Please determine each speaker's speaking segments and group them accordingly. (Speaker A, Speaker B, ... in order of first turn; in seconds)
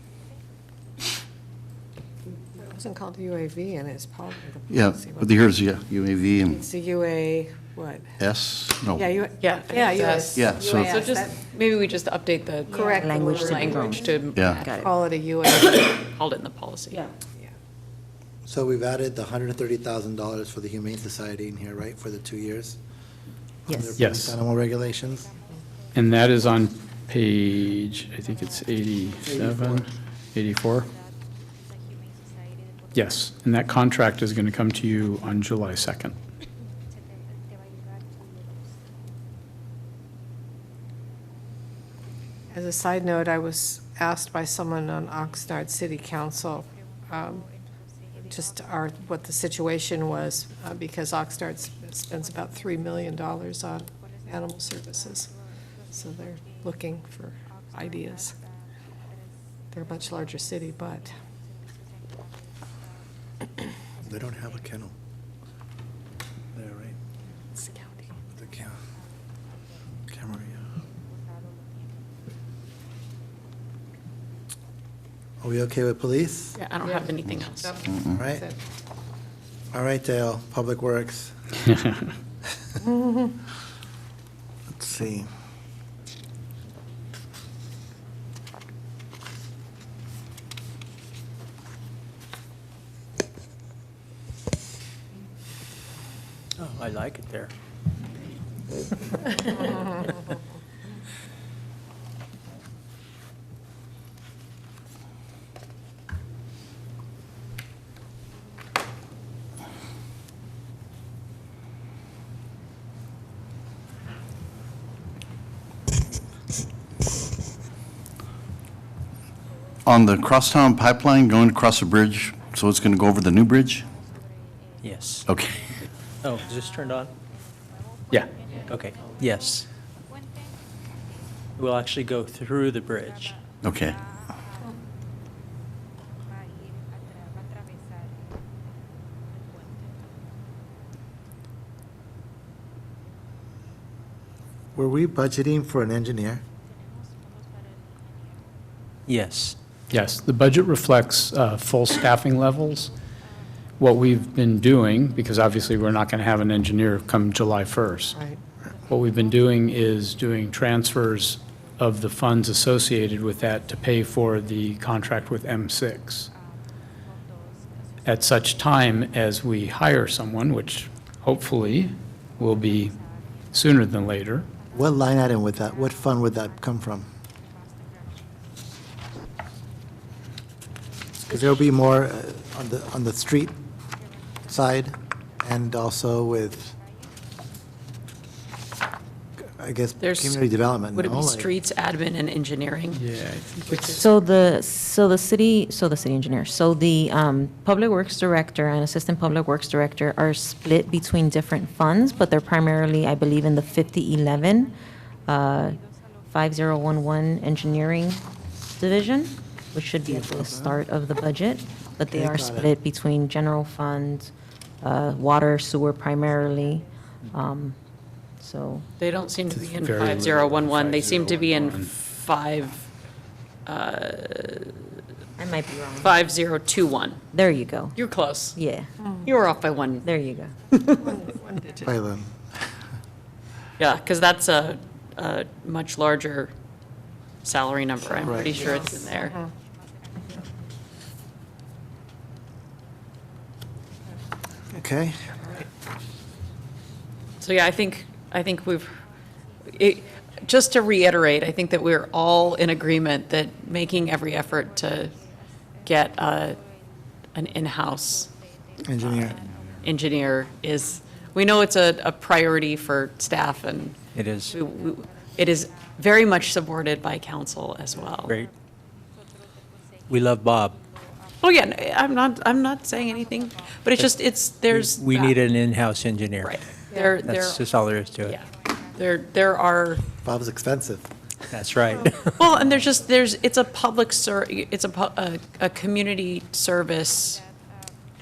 Speaker A: 2.5-5.3, 6.4-8.2, 8.9-11.3, 12.7-15.9, 42.5-47.5, 48.3-55.3, 55.9-58.4, 59.7-61.1, 67.5-68.1, 76.8-78.5, 82.8-83.2, 158.1-158.4, 230.9-231.9, 238.2-239.5, 276.9-277.2
Speaker B: 4.7-6.6, 8.2-9.1, 10.3-11.0, 14.3-14.6, 119.8-123.9, 125.3-125.6, 133.6-134.0
Speaker C: 9.4-14.7, 16.0-17.0, 76.5-77.7, 190.0-190.4, 190.9-193.0, 219.0-222.9, 223.7-224.9, 226.0-227.2, 227.9-228.6, 229.2-230.1, 230.7-231.1, 233.8-236.5, 237.4-239.3, 247.4-249.0, 249.7-255.2, 255.8-256.6, 257.3-258.3, 259.8-264.0, 264.5-268.4, 271.4-275.4, 276.4-277.6, 278.2-280.0, 282.4-287.4
Speaker D: 12.9-14.9, 23.7-24.0, 193.9-204.7, 205.3-205.8, 206.3-217.8, 218.4-218.9, 225.4-226.2, 227.3-228.0, 228.5-228.9, 230.0-230.5
Speaker E: 18.4-22.8, 23.7-25.3, 29.2-29.8, 64.0-64.9, 66.5-67.0, 68.4-68.7, 70.1-70.6, 75.4-76.6, 78.1-78.4, 79.7-81.4, 84.7-85.3, 144.7-146.4, 174.7-177.1, 181.2-183.6, 184.5-186.7, 189.4-191.5, 210.1-210.8, 212.1-212.7, 231.8-232.3, 238.2-238.6, 244.7-245.5, 258.8-259.4, 280.2-281.1
Speaker F: 24.0-24.4, 25.9-30.9, 32.9-36.1, 149.9-152.9, 153.8-158.2, 158.8-166.3, 168.0-173.0, 173.5-174.5, 192.9-194.0, 219.5-221.9
Speaker G: 96.6-97.5, 124.8-125.3, 126.2-127.1, 128.7-129.7, 131.6-133.4, 149.1-149.6, 264.1-264.5, 270.1-270.8, 274.7-276.6, 277.2-278.4, 281.5-282.4